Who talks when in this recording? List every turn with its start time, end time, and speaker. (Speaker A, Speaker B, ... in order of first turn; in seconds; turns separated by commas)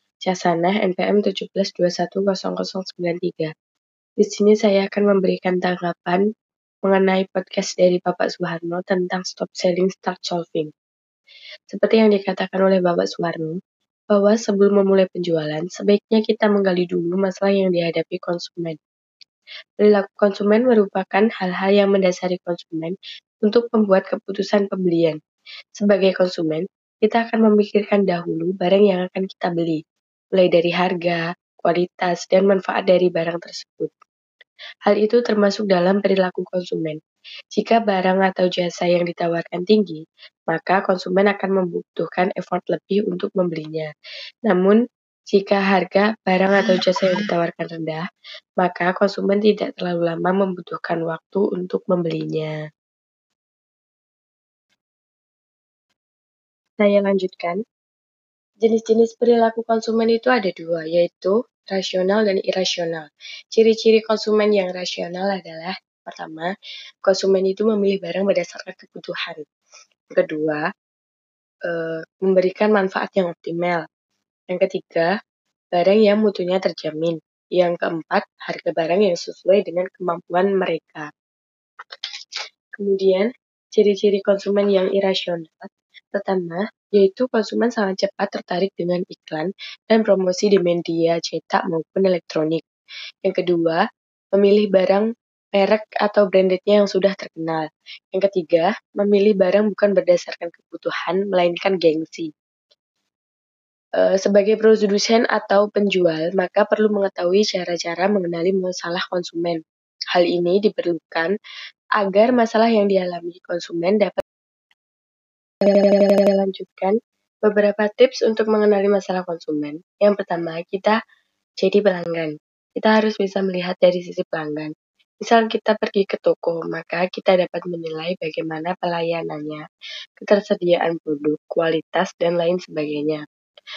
Speaker A: 0.2-3.5, Speaker A: 4.2-6.2, Speaker A: 6.8-10.7, Speaker A: 11.7-13.6, Speaker A: 14.1-18.8, Speaker A: 19.8-25.2, Speaker A: 25.8-29.8, Speaker A: 30.3-33.9, Speaker A: 34.9-37.0, Speaker A: 37.5-43.9, Speaker A: 44.5-44.8, Speaker A: 45.3-48.0, Speaker A: 48.6-52.6, Speaker A: 56.8-57.6, Speaker A: 58.6-66.5, Speaker A: 67.0-69.4, Speaker A: 70.1-70.6, Speaker A: 71.7-73.8, Speaker A: 74.5-75.1, Speaker A: 75.8-81.1, Speaker A: 82.8-92.6, Speaker A: 93.2-93.8, Speaker A: 94.3-102.3, Speaker A: 104.0-109.6, Speaker A: 110.1-111.3, Speaker A: 112.0-114.2, Speaker A: 115.6-121.0, Speaker A: 121.6-129.6, Speaker A: 130.2-133.2